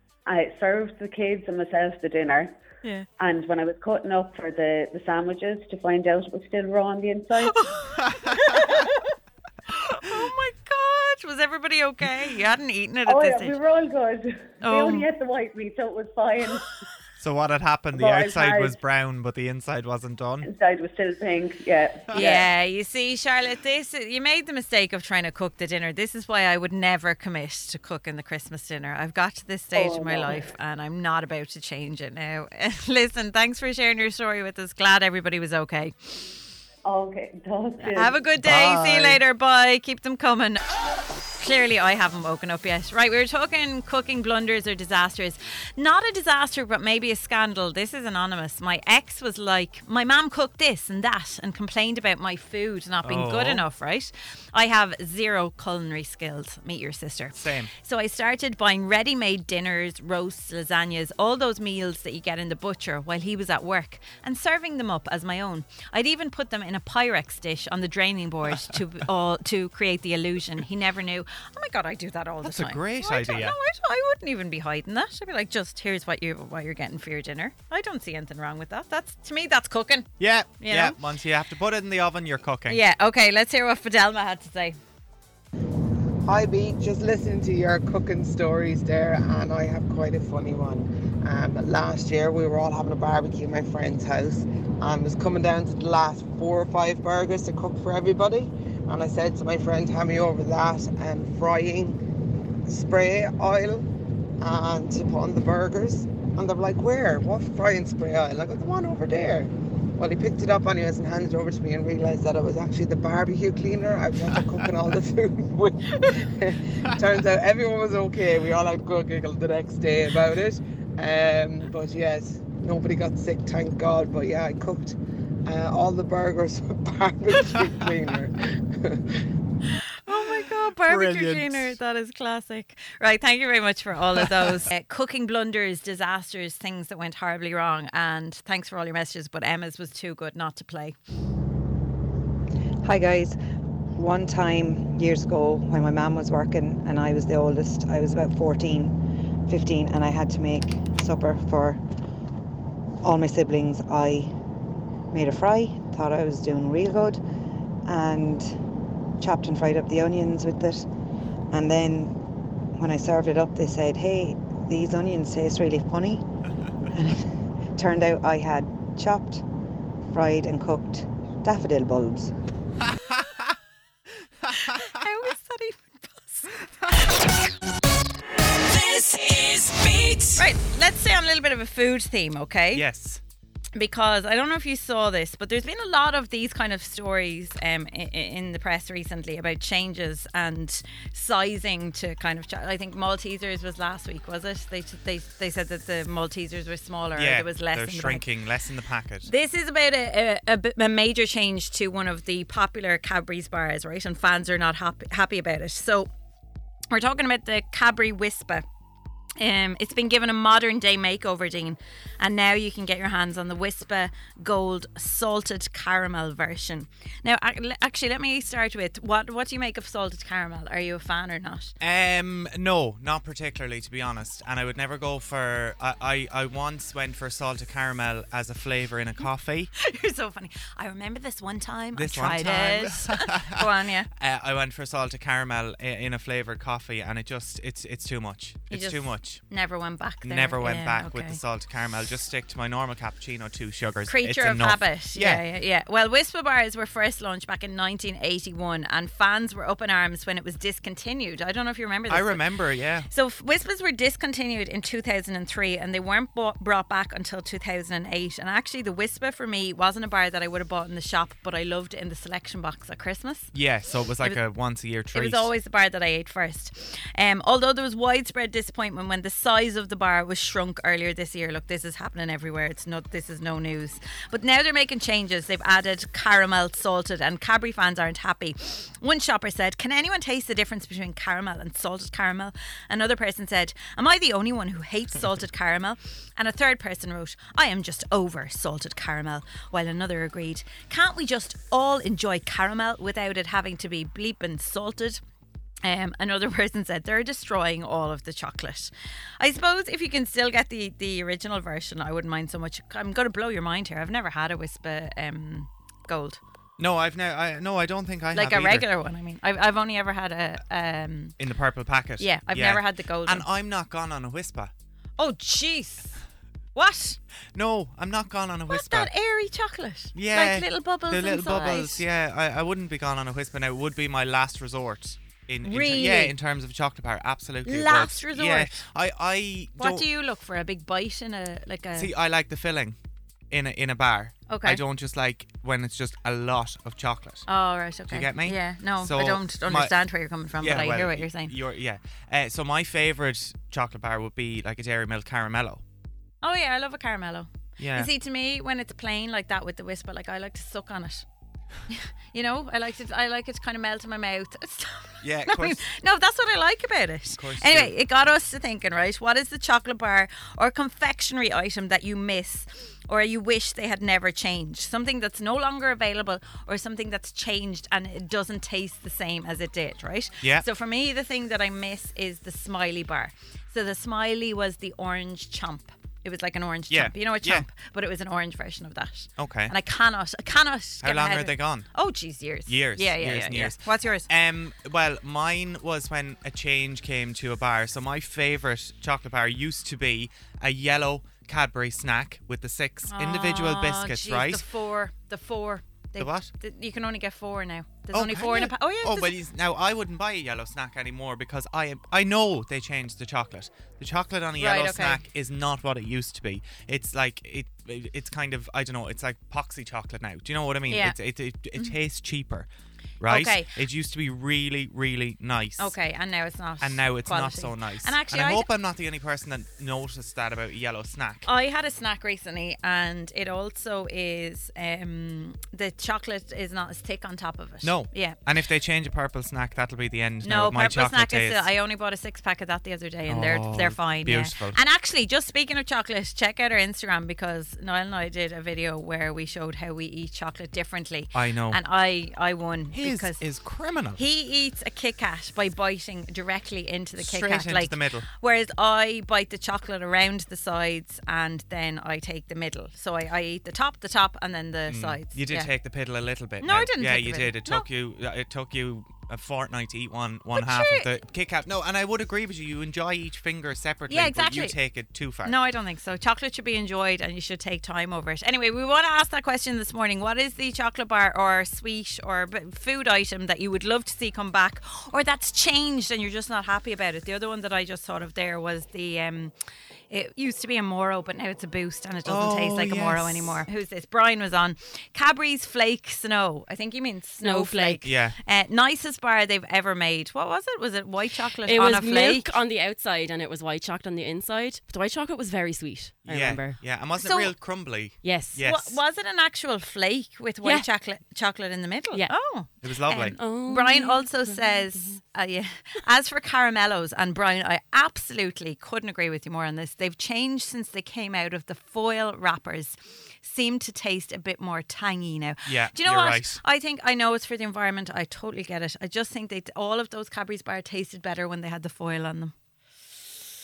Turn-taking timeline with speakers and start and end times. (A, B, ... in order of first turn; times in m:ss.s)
0:00.2-0:02.5 A
0:03.2-0:07.6 A
0:07.4-0:09.0 B
0:09.7-0:13.6 B
0:13.0-0:16.7 A
0:14.6-0:15.1 B
0:17.2-0:20.5 C
0:17.9-0:18.8 A
0:20.4-0:22.5 A
0:22.1-0:36.2 B
0:29.7-0:30.5 A
0:36.8-0:38.2 A
0:37.9-0:40.6 B
0:38.4-0:39.2 C
0:41.4-1:21.0 B
0:53.0-0:53.6 C
0:57.3-0:57.7 C
1:12.4-1:13.5 C
1:20.2-1:22.8 C
1:22.7-1:24.8 B
1:26.2-1:42.0 D
1:42.7-1:43.9 D
1:44.4-2:09.0 D
2:10.0-2:21.0 B
2:10.1-2:11.7 C
2:22.8-2:23.4 E
2:24.0-2:29.0 E
2:29.5-2:31.8 E
2:33.0-2:34.3 E
2:35.1-2:37.2 E
2:37.8-2:38.6 E
2:39.2-2:40.9 E
2:41.5-2:42.2 E
2:42.7-2:46.3 E
2:46.9-2:49.4 E
2:50.1-2:52.3 E
2:54.6-2:57.4 B
2:58.4-3:00.4 F
3:00.4-3:02.8 B
3:02.7-3:03.2 C
3:03.8-3:18.2 B
3:17.2-3:19.3 C
3:19.2-3:26.1 B
3:26.9-3:28.6 B
3:29.4-3:41.7 B
3:41.8-3:49.7 C
3:49.8-3:54.1 B
3:51.9-3:59.4 C
3:58.7-4:01.4 B
4:00.2-4:05.4 C
4:04.0-4:12.5 B
4:12.1-4:13.1 C
4:13.1-4:23.5 B
4:23.5-4:25.5 C
4:25.1-4:55.2 B
4:55.8-5:06.4 B
5:06.8-5:08.8 C
5:08.3-5:11.4 B
5:11.4-5:14.7 C
5:12.2-5:13.4 B
5:15.2-5:16.2 B
5:16.7-5:17.2 B
5:17.5-5:19.1 C
5:18.7-5:22.0 B
5:20.1-5:30.1 C
5:25.6-5:26.3 B
5:27.6-5:28.8 B
5:29.8-5:32.1 B
5:32.0-5:33.0 C
5:33.5-5:37.4 C
5:34.5-5:34.8 B
5:37.5-5:41.5 B
5:38.1-5:40.0 C
5:40.6-5:45.8 C
5:46.4-5:51.2 B
5:47.8-5:48.1 C
5:51.9-6:24.3 B
5:55.2-5:55.8 C
5:57.4-5:57.9 C
6:16.9-6:17.6 C
6:19.4-6:19.7 C
6:21.0-6:21.9 C
6:22.7-6:34.6 C
6:33.1-6:39.3 B
6:36.2-6:36.5 C
6:38.1-6:52.7 C
6:44.6-6:45.2 B
6:50.9-6:51.2 B
6:53.2-6:55.9 C
6:53.3-6:53.7 B
6:55.8-6:58.7 B
6:56.8-7:01.5 C
7:01.4-7:08.4 B
7:07.8-7:11.6 C
7:10.4-7:23.4 B
7:13.2-7:14.8 C
7:21.3-7:21.8 C
7:22.9-7:24.2 C
7:24.1-7:35.7 B
7:27.2-7:28.2 C
7:34.9-7:45.5 C
7:36.6-7:37.8 B
7:40.5-7:41.1 B
7:44.1-7:44.8 B
7:45.4-7:59.5 B
8:00.1-8:12.5 B
8:02.2-8:03.6 C
8:07.4-8:08.1 G
8:08.0-8:08.4 C
8:11.6-8:16.8 G
8:16.2-8:19.0 C
8:17.2-8:17.5 B
8:18.2-8:18.6 G
8:18.6-8:42.5 B
8:20.6-8:20.9 G
8:22.1-8:22.4 G
8:22.8-8:23.4 C
8:23.1-8:25.2 G
8:35.6-8:36.6 C